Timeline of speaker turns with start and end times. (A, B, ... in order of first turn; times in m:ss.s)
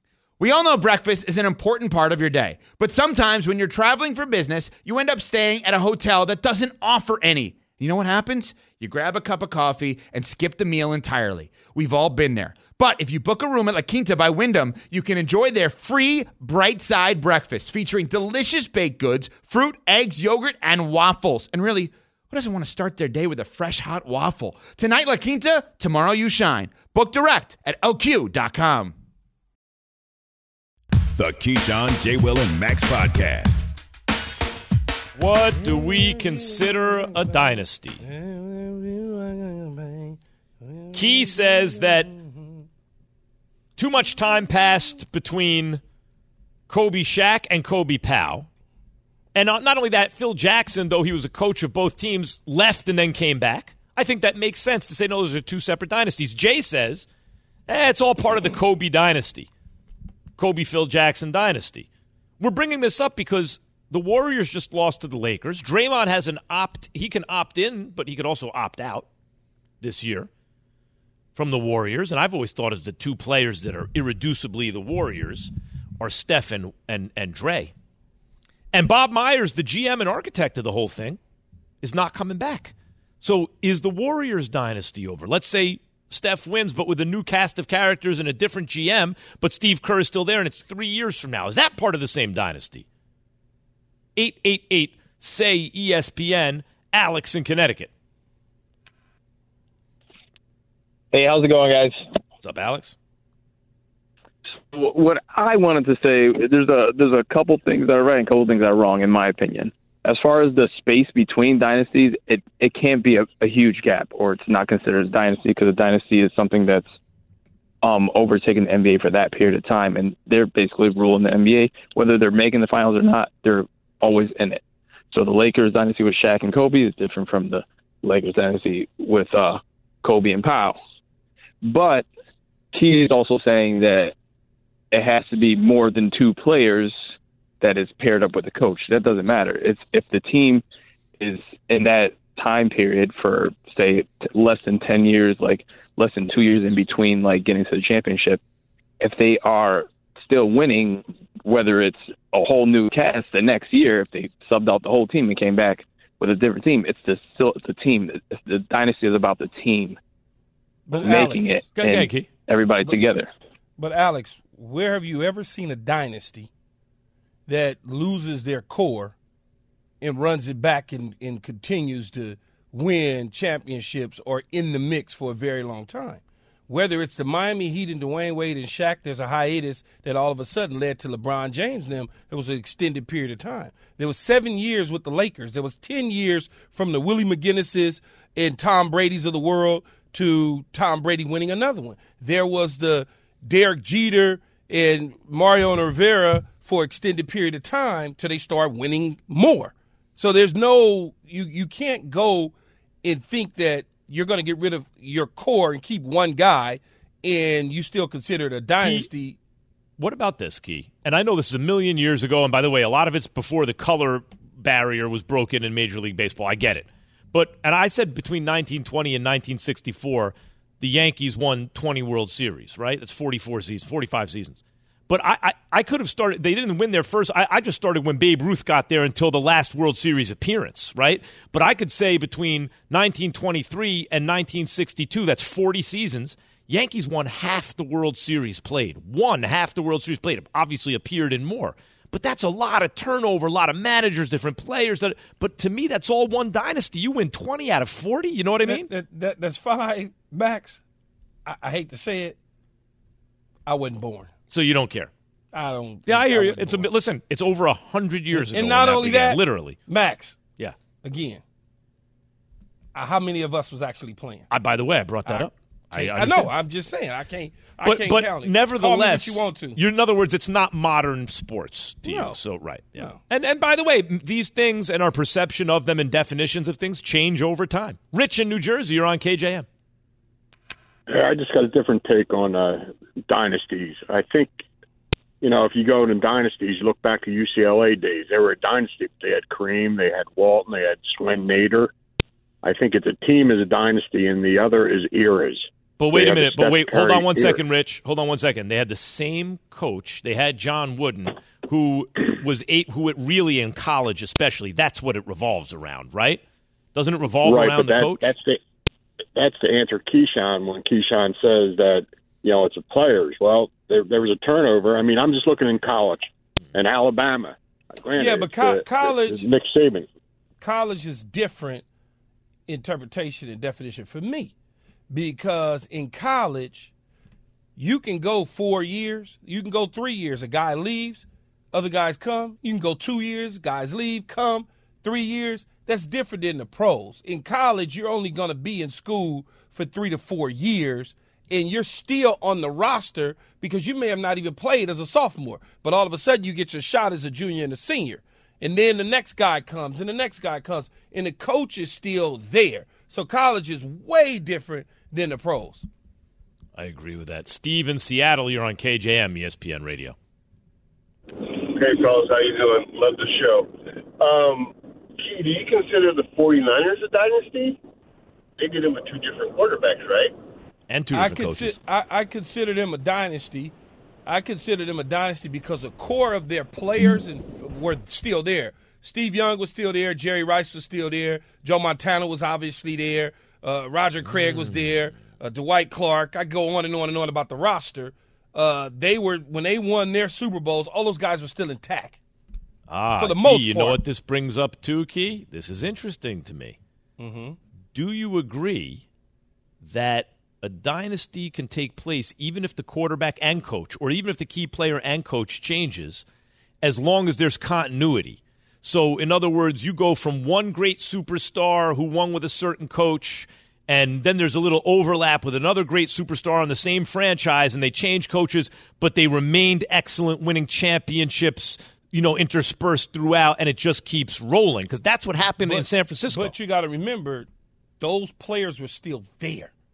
0:00.4-0:29.0 A
0:31.2-0:33.7 B
0:35.2-0:38.0 C
0:35.6-0:37.4 D
0:38.0-0:42.5 D
0:40.9-0:42.1 C
0:43.8-0:45.8 C
0:46.7-0:48.5 C
0:49.3-0:57.1 C
0:57.7-0:59.5 C
1:00.4-1:01.9 C
1:02.4-1:09.1 C
1:09.8-1:10.3 C
1:11.4-1:17.7 C
1:18.7-1:21.2 C
1:21.8-1:32.8 C
1:34.2-1:37.9 C
1:41.1-1:42.0 E
1:42.4-1:43.0 C
1:44.7-1:56.9 E
1:57.8-2:04.6 E
2:05.1-2:10.8 E
2:11.6-2:12.1 E
2:12.7-2:14.1 E
2:14.9-2:17.0 E
2:17.6-2:20.6 E
2:21.2-2:28.4 E
2:29.0-2:40.0 E
2:40.9-2:41.7 D
2:40.9-2:43.3 E
2:41.8-2:42.3 C
2:43.8-2:46.5 D
2:47.5-2:49.1 D
2:50.0-3:29.4 D
3:28.8-3:29.1 C
3:30.0-4:08.9 C
4:08.6-4:10.8 D
4:11.5-4:12.4 D
4:13.7-4:14.3 D
4:14.5-4:15.1 C
4:15.5-4:16.9 D
4:16.1-4:19.8 C
4:18.3-4:20.4 D
4:21.0-4:21.4 D
4:22.9-4:24.5 D
4:24.5-4:26.5 C
4:25.3-4:29.8 D
4:27.8-4:39.7 C
4:32.0-4:32.4 D
4:41.1-4:44.5 F
4:45.4-4:51.9 F
4:52.6-4:57.6 F
4:56.0-5:06.4 C
5:07.0-5:08.3 C
5:07.4-5:08.6 F
5:09.4-5:20.1 F
5:18.2-5:19.4 D
5:20.6-5:21.8 D
5:22.7-5:24.5 D
5:25.1-5:26.9 D
5:27.8-5:55.9 D
5:56.8-6:00.2 C
6:01.4-6:07.8 G
6:08.6-6:10.3 G
6:10.9-6:11.8 C
6:11.1-6:13.7 D
6:14.3-6:32.2 D
6:24.4-6:24.9 C
6:32.9-6:36.8 C
6:33.2-6:34.0 D
6:37.2-6:37.6 D
6:37.9-6:39.0 C
6:39.8-6:46.2 C
6:46.8-7:06.5 C
7:05.6-7:07.5 D
7:08.0-7:09.7 D